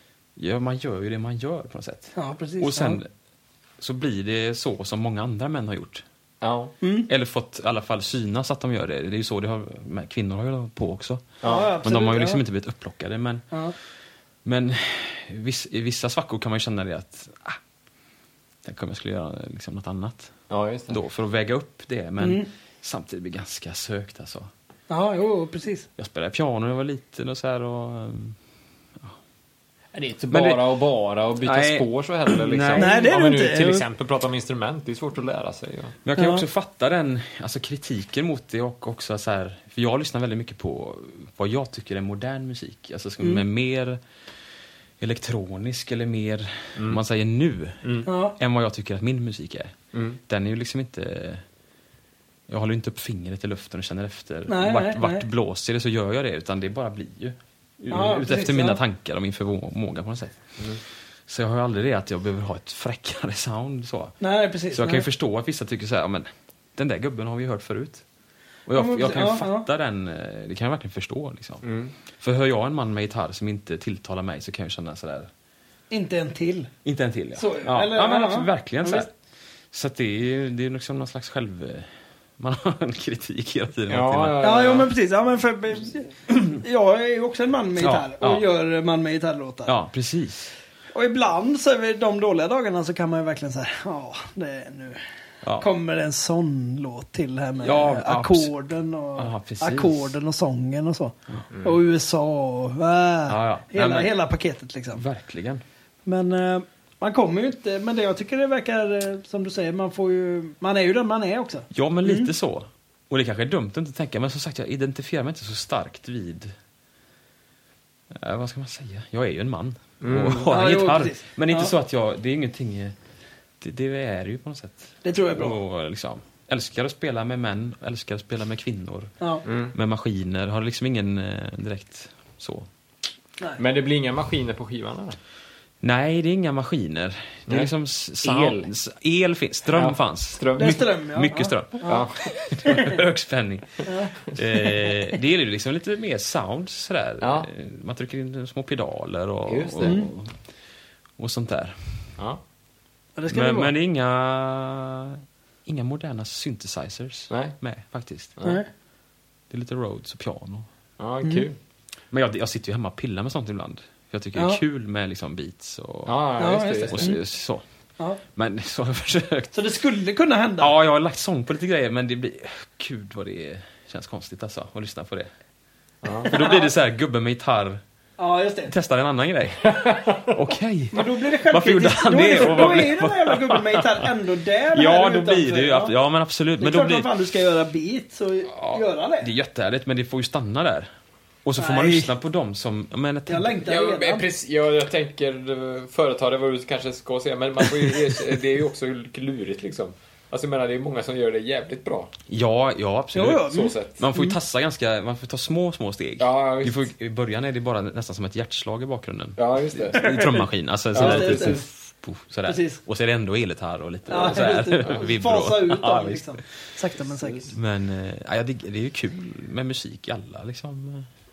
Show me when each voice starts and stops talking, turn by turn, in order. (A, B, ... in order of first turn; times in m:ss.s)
0:00.4-0:03.1 A
0:02.2-0:03.0 B
0:03.8-0:06.0 A
0:06.4-0:06.7 C
0:06.8-0:07.1 B
0:07.1-0:13.5 A
0:11.4-0:11.7 C
0:11.4-0:12.4 B
0:14.4-0:17.6 A
0:18.6-0:20.3 A
0:20.5-0:21.0 C
0:20.9-0:24.5 A
0:22.2-0:22.5 B
0:24.9-0:25.9 B
0:26.0-0:28.4 A
0:29.9-0:36.0 C
0:30.3-0:30.7 A
0:31.4-0:33.0 A
0:32.8-0:33.8 B
0:36.0-0:44.0 A
0:36.2-0:36.4 B
0:45.0-0:49.7 A
0:46.8-0:47.0 C
0:48.1-0:48.4 B
0:49.9-0:50.2 C
0:50.3-0:51.4 A
0:52.5-1:00.5 A
0:54.5-0:55.2 B
0:57.9-0:58.8 B
1:01.3-1:04.2 A
1:04.2-1:05.1 B
1:04.7-1:08.0 A
1:08.6-1:11.6 A
1:08.7-1:09.7 B
1:11.6-1:11.9 C
1:12.2-1:15.3 A
1:15.9-1:16.7 B
1:16.8-1:19.1 A
1:17.4-1:19.1 B
1:19.7-1:24.5 A
1:23.9-1:24.9 C
1:24.4-1:29.7 B
1:27.8-1:28.5 A
1:29.7-1:30.5 A
1:30.9-1:35.0 B
1:35.4-1:35.7 A
1:35.6-1:45.0 B
1:37.6-1:38.5 A
1:39.2-1:40.1 A
1:41.5-1:41.8 C
1:43.3-1:44.1 A
1:44.9-1:45.6 A
1:46.0-1:52.3 B
1:51.7-1:56.5 A
1:58.1-2:02.9 A
2:00.0-2:00.5 C
2:00.4-2:01.7 B
2:03.6-2:09.1 A
2:05.0-2:05.6 B
2:09.4-2:09.7 C
2:09.7-2:12.7 A
2:13.6-2:15.2 C
2:15.8-2:30.3 A
2:18.2-2:18.7 C
2:19.7-2:20.9 C
2:20.6-2:22.1 B
2:21.8-2:22.2 C
2:22.6-2:23.0 B
2:23.8-2:25.1 B
2:27.2-2:27.5 C
2:29.5-2:30.0 C
2:29.8-2:30.1 B
2:31.2-2:31.8 A
2:33.2-2:33.7 B
2:33.3-2:38.4 A
2:37.3-2:37.6 C
2:38.4-2:38.7 B
2:39.5-2:40.7 A
2:41.0-2:41.6 C
2:42.1-2:46.2 A
2:44.4-2:44.6 B
2:46.0-2:47.2 C
2:46.4-2:47.2 B
2:46.9-2:47.6 A
2:48.3-2:49.5 A
2:49.5-2:50.7 B
2:50.6-2:55.3 A
2:56.0-2:56.3 C
2:56.3-2:56.7 B
2:56.3-2:57.8 A
2:58.2-2:58.7 B
2:58.7-3:04.1 A
2:59.7-3:00.2 C
3:00.9-3:05.9 B
3:04.7-3:07.2 A
3:06.6-3:09.3 B
3:08.6-3:10.9 A
3:11.4-3:13.6 A
3:11.6-3:12.1 B
3:13.3-3:14.2 B
3:13.6-3:22.1 C
3:22.3-3:36.4 A
3:23.1-3:24.4 B
3:23.4-3:24.0 C
3:26.2-3:26.9 C
3:29.4-3:30.3 C
3:30.0-3:30.4 B
3:30.9-3:31.6 C
3:30.9-3:31.6 B
3:32.4-3:32.8 B
3:34.1-3:37.5 B
3:37.1-3:37.5 C
3:37.5-3:41.1 A